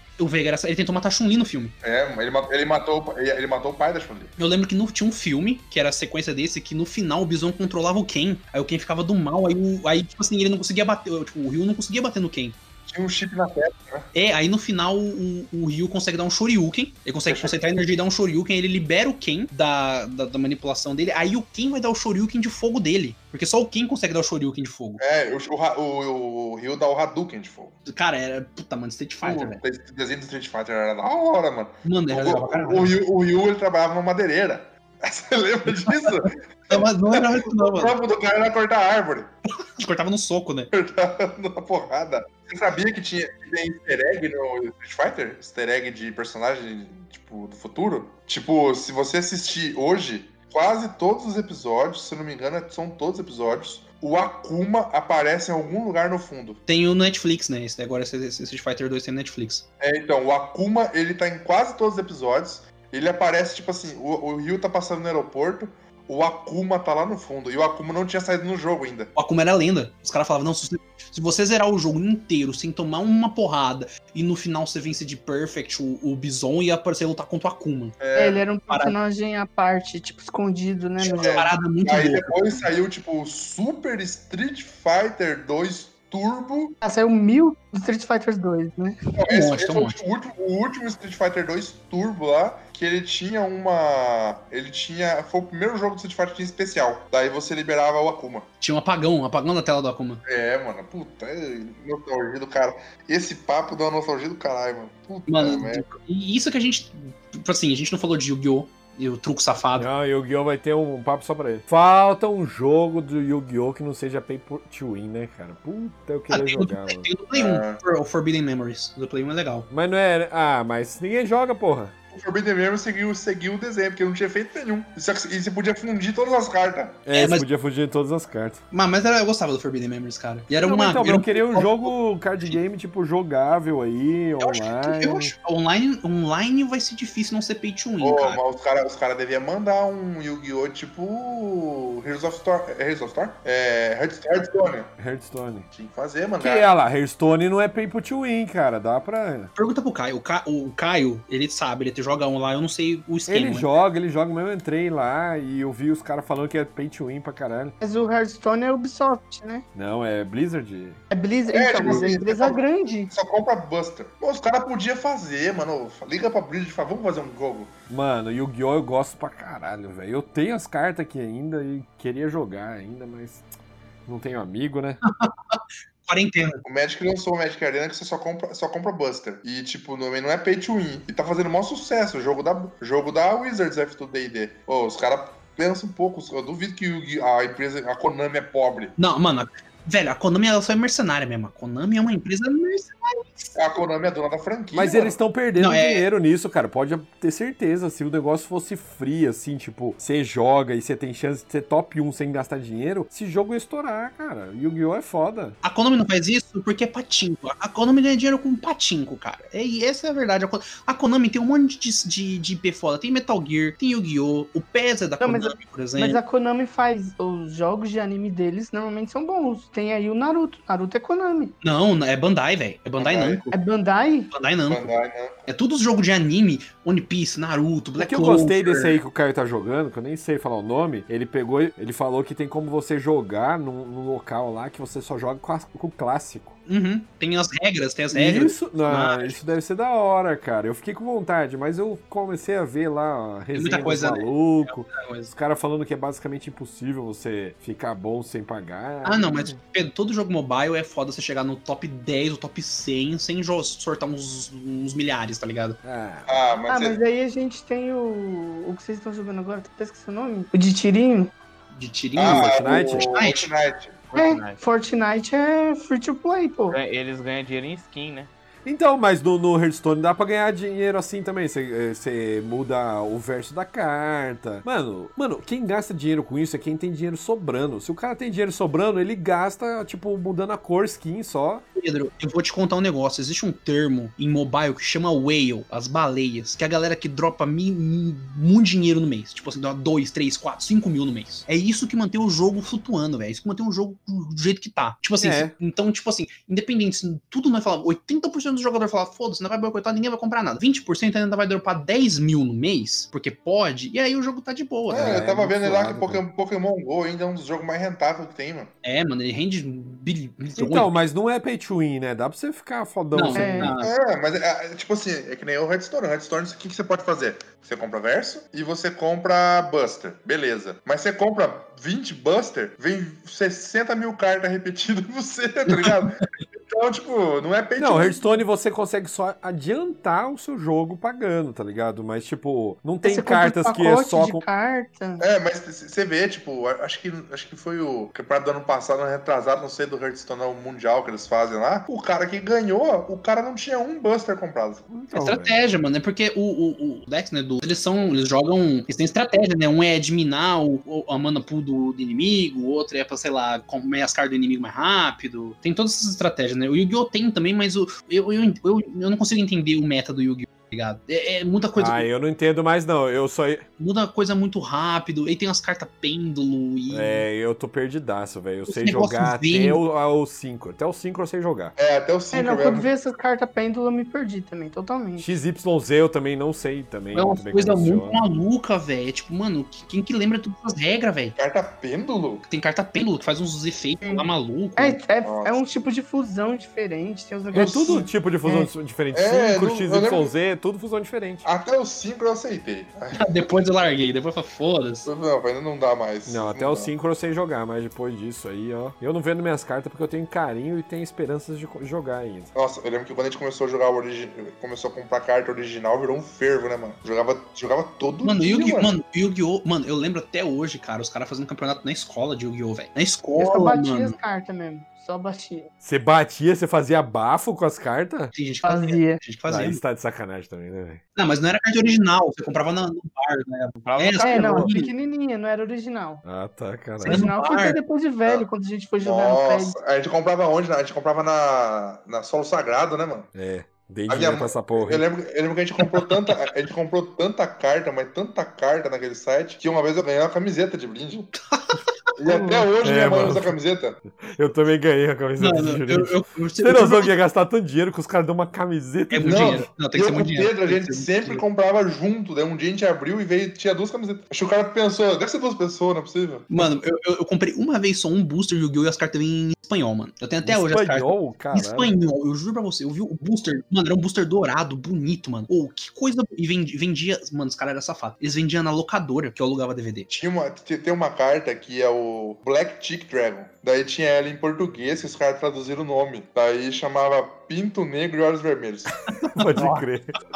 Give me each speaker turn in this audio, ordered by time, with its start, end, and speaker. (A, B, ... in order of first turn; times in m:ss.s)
0:00.2-0:01.7 A
0:01.8-0:04.3 B
0:04.4-0:12.6 A
0:12.8-0:14.1 B
0:14.1-0:25.0 A
0:17.2-0:17.5 B
0:25.0-0:27.8 B
0:27.9-0:29.6 A
0:29.2-0:39.3 B
0:31.8-0:32.9 A
0:35.8-0:36.1 A
0:36.7-0:38.0 A
0:39.8-0:40.7 A
0:40.7-0:56.6 B
0:56.7-0:59.6 A
0:59.8-1:09.1 B
1:09.1-1:18.0 A
1:18.0-1:18.4 B
1:18.1-1:21.4 C
1:18.7-1:18.9 A
1:21.0-1:26.8 B
1:21.2-1:22.3 A
1:26.8-1:29.0 C
1:29.2-1:38.5 B
1:29.3-1:29.9 A
1:38.6-1:40.2 A
1:40.2-1:45.8 B
1:45.3-1:49.9 A
1:49.8-1:57.1 D
1:56.3-1:59.7 A
1:57.3-1:57.8 B
1:59.7-2:01.9 D
2:02.1-2:07.0 B
2:07.0-2:08.6 D
2:07.1-2:07.4 A
2:08.7-2:11.3 A
2:10.5-2:15.3 D
2:11.4-2:11.8 B
2:14.4-2:18.4 A
2:18.0-2:24.9 B
2:25.0-2:25.7 D
2:25.7-2:26.7 B
2:26.4-2:29.5 D
2:29.6-2:33.7 A
2:33.3-2:37.7 D
2:37.8-2:39.6 C
2:39.7-2:41.0 D
2:41.1-2:43.1 C
2:41.5-2:47.7 B
2:47.9-2:53.4 D
2:54.0-2:55.0 D
2:55.0-2:56.6 A
2:56.6-3:08.9 B
3:09.0-3:13.5 A
3:13.6-3:15.2 B
3:14.7-3:25.6 D
3:15.6-3:16.0 A
3:25.6-3:36.2 A
3:35.2-3:41.5 C
3:41.6-3:43.5 A
3:43.0-3:43.4 B
3:43.5-3:44.3 C
3:44.3-3:44.9 A
3:44.7-3:45.4 B
3:45.5-3:49.0 A
3:48.0-3:56.6 D
3:56.7-3:59.4 A
3:58.1-4:09.6 D
4:03.5-4:05.3 A
4:09.0-4:15.8 A
4:15.8-4:16.4 D
4:16.3-4:17.0 B
4:16.7-4:21.3 C
4:21.7-4:23.5 A
4:22.2-4:24.0 B
4:22.2-4:23.1 D
4:24.1-4:24.6 E
4:24.1-4:26.8 C
4:26.7-4:28.3 E
4:28.6-4:41.6 D
4:41.8-5:05.2 A
4:55.2-4:55.5 D
5:04.9-5:08.7 B
5:04.9-5:06.2 D
5:08.8-5:10.9 A
5:10.5-5:13.7 D
5:13.1-5:13.9 A
5:13.3-5:13.7 C
5:13.8-5:28.4 B
5:27.8-5:34.4 D
5:33.0-5:35.2 C
5:35.2-5:44.9 B
5:44.9-5:45.5 D
5:45.1-6:02.1 A
6:01.8-6:03.6 D
6:03.8-6:07.2 A
6:06.9-6:11.7 D
6:08.7-6:09.8 A
6:11.8-6:12.9 B
6:12.3-6:15.3 C
6:15.2-6:18.2 D
6:17.1-6:21.4 A
6:21.4-6:22.4 B
6:22.5-6:25.0 A
6:24.8-6:28.7 C
6:25.2-6:25.6 B
6:27.5-6:31.4 D
6:29.1-6:30.3 B
6:31.4-6:33.2 B
6:33.1-6:35.1 A
6:35.0-6:36.9 B
6:36.2-6:42.5 D
6:42.5-6:48.9 B
6:48.2-6:54.2 A
6:53.4-6:55.7 C
6:55.8-6:58.3 D
6:58.3-6:59.8 A
6:58.6-6:59.2 C
6:59.5-7:01.0 D
7:01.2-7:04.9 A
7:03.8-7:04.7 E
7:04.2-7:06.2 C
7:06.2-7:07.2 D
7:07.0-7:09.8 C
7:07.0-7:07.8 A
7:09.0-7:13.3 B
7:13.3-7:15.0 D
7:14.1-7:21.3 B
7:21.5-7:21.8 A
7:22.2-7:24.0 B
7:22.8-7:23.6 D
7:24.1-7:29.6 D
7:25.4-7:27.1 A
7:29.1-7:31.4 A
7:29.2-7:36.5 B
7:36.5-7:50.2 A
7:40.4-7:41.9 D
7:50.1-7:59.2 B
7:59.2-7:59.8 A
7:59.3-8:00.2 D